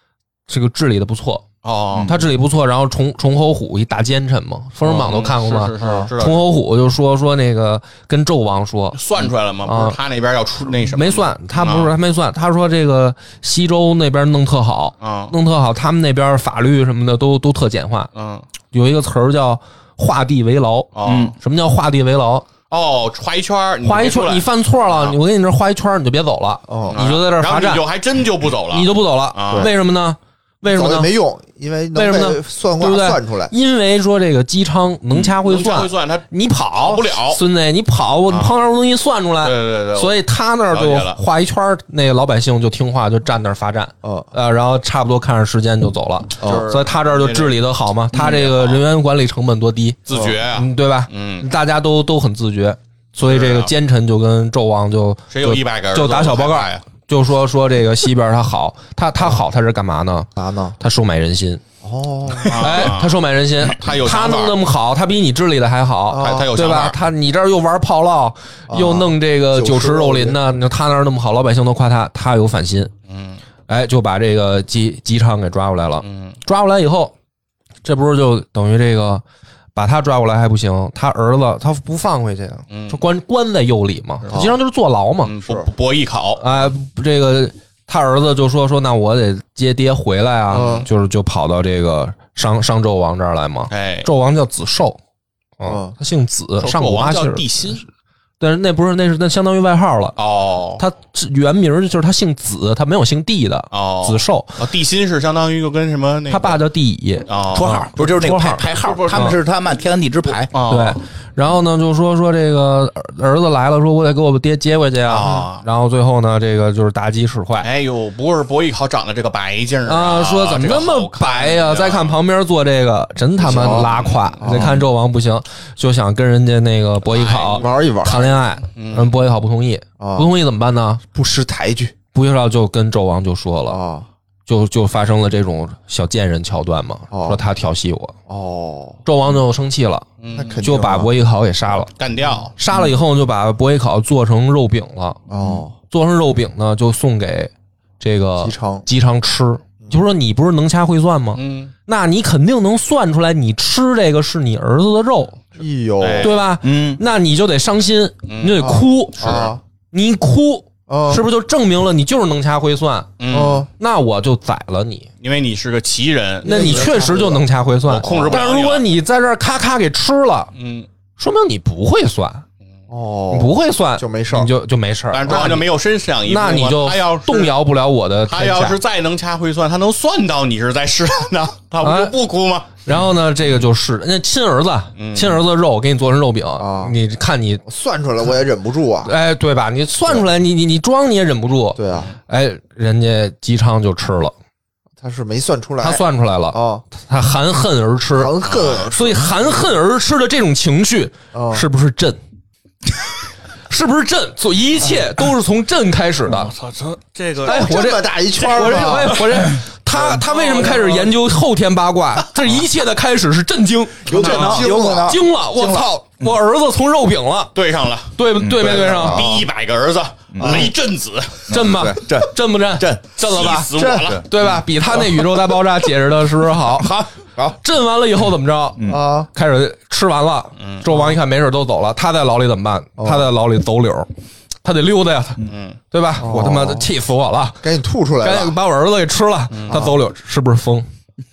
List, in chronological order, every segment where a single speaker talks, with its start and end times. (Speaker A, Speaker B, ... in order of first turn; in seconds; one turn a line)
Speaker A: 0.5-1.4
Speaker B: 1.6-2.2
Speaker A: 2.0-9.0
Speaker B: 4.8-6.5
Speaker C: 5.8-6.1
Speaker B: 8.9-11.9
Speaker A: 9.7-10.0
Speaker A: 10.8-18.1
Speaker B: 15.0-15.3
Speaker B: 18.1-18.4
Speaker A: 18.7-22.5
Speaker B: 20.9-21.3
Speaker D: 21.0-21.3
Speaker B: 22.7-25.2
Speaker A: 23.8-27.8
Speaker C: 26.7-27.0
Speaker B: 26.9-29.7
Speaker A: 28.7-31.1
Speaker C: 30.6-33.5
Speaker A: 31.9-50.0
Speaker B: 35.1-37.4
Speaker B: 38.3-38.5
Speaker B: 39.4-41.2
Speaker C: 44.0-44.3
Speaker C: 46.4-46.6
Speaker B: 46.4-47.6
Speaker B: 48.1-48.8
Speaker B: 50.0-51.5
Speaker C: 50.1-50.4
Speaker A: 50.5-61.6
Speaker B: 53.2-53.7
Speaker B: 55.3-56.8
Speaker C: 60.4-60.8
Speaker C: 61.8-62.9
Speaker B: 62.4-64.6
Speaker A: 62.5-72.9
Speaker C: 66.1-66.5
Speaker B: 66.2-67.0
Speaker C: 68.7-70.4
Speaker B: 73.1-73.4
Speaker A: 73.7-77.1
Speaker B: 76.0-76.4
Speaker A: 77.8-79.2
Speaker A: 79.8-85.4
Speaker B: 82.7-83.0
Speaker C: 84.3-84.6
Speaker B: 85.2-86.4
Speaker A: 86.4-95.0
Speaker C: 90.5-90.9
Speaker B: 90.5-90.9
Speaker B: 93.7-94.1
Speaker A: 95.6-97.8
Speaker C: 95.6-95.9
Speaker B: 96.6-97.8
Speaker A: 98.4-100.1
Speaker B: 100.2-100.8
Speaker A: 100.8-104.6
Speaker B: 103.7-106.6
Speaker A: 106.3-109.3
Speaker B: 107.3-107.8
Speaker D: 107.5-110.5
Speaker B: 108.6-109.3
Speaker B: 110.5-111.0
Speaker A: 110.7-117.7
Speaker B: 115.0-115.6
Speaker B: 117.6-122.2
Speaker A: 119.9-131.0
Speaker C: 123.4-124.8
Speaker B: 123.5-124.7
Speaker B: 127.0-129.1
Speaker C: 127.6-128.3
Speaker C: 130.0-130.3
Speaker C: 131.1-131.9
Speaker A: 132.1-133.8
Speaker C: 133.7-134.1
Speaker A: 134.4-138.1
Speaker C: 137.1-137.4
Speaker C: 138.3-139.0
Speaker A: 139.0-140.1
Speaker B: 140.2-140.7
Speaker C: 140.3-141.1
Speaker A: 140.6-141.9
Speaker B: 142.0-142.5
Speaker C: 142.3-142.9
Speaker A: 142.6-145.2
Speaker C: 145.3-145.7
Speaker A: 145.7-155.4
Speaker C: 148.4-148.9
Speaker B: 151.3-151.7
Speaker C: 155.6-156.4
Speaker B: 156.0-156.4
Speaker A: 156.2-163.1
Speaker D: 156.6-157.0
Speaker B: 158.3-159.5
Speaker C: 158.6-159.6
Speaker C: 160.9-161.2
Speaker B: 163.2-163.7
Speaker C: 163.3-163.7
Speaker A: 163.8-165.1
Speaker B: 165.2-166.9
Speaker C: 166.4-167.4
Speaker A: 166.4-170.5
Speaker B: 167.9-168.8
Speaker C: 168.0-168.4
Speaker B: 170.5-170.9
Speaker A: 171.2-172.4
Speaker C: 172.9-174.5
Speaker A: 173.3-175.7
Speaker B: 175.1-177.6
Speaker A: 176.2-178.8
Speaker B: 178.3-182.8
Speaker A: 181.8-182.1
Speaker A: 182.8-187.6
Speaker B: 184.9-185.4
Speaker C: 186.6-186.9
Speaker C: 187.7-189.1
Speaker A: 189.0-194.3
Speaker C: 191.8-192.1
Speaker C: 195.0-196.8
Speaker A: 195.8-202.2
Speaker C: 198.1-199.6
Speaker B: 198.4-198.9
Speaker C: 201.3-201.6
Speaker A: 203.7-206.5
Speaker B: 206.3-207.8
Speaker C: 207.4-209.5
Speaker A: 207.4-217.5
Speaker B: 210.0-211.0
Speaker C: 210.3-211.1
Speaker D: 214.0-216.3
Speaker C: 214.1-215.2
Speaker B: 214.2-214.6
Speaker B: 217.5-221.5
Speaker A: 218.2-219.2
Speaker D: 218.4-219.4
Speaker C: 219.2-219.4
Speaker D: 220.3-220.7
Speaker C: 220.4-220.7
Speaker D: 221.5-224.3
Speaker A: 221.5-227.0
Speaker B: 223.2-224.3
Speaker D: 224.9-225.3
Speaker D: 226.7-227.6
Speaker A: 227.6-234.1
Speaker D: 228.8-229.0
Speaker C: 228.9-229.3
Speaker B: 230.6-230.9
Speaker C: 230.9-231.1
Speaker C: 233.0-233.3
Speaker A: 234.6-237.7
Speaker B: 235.4-235.8
Speaker C: 236.2-236.9
Speaker C: 237.6-238.6
Speaker A: 238.2-240.9
Speaker B: 239.5-239.9
Speaker C: 239.7-240.0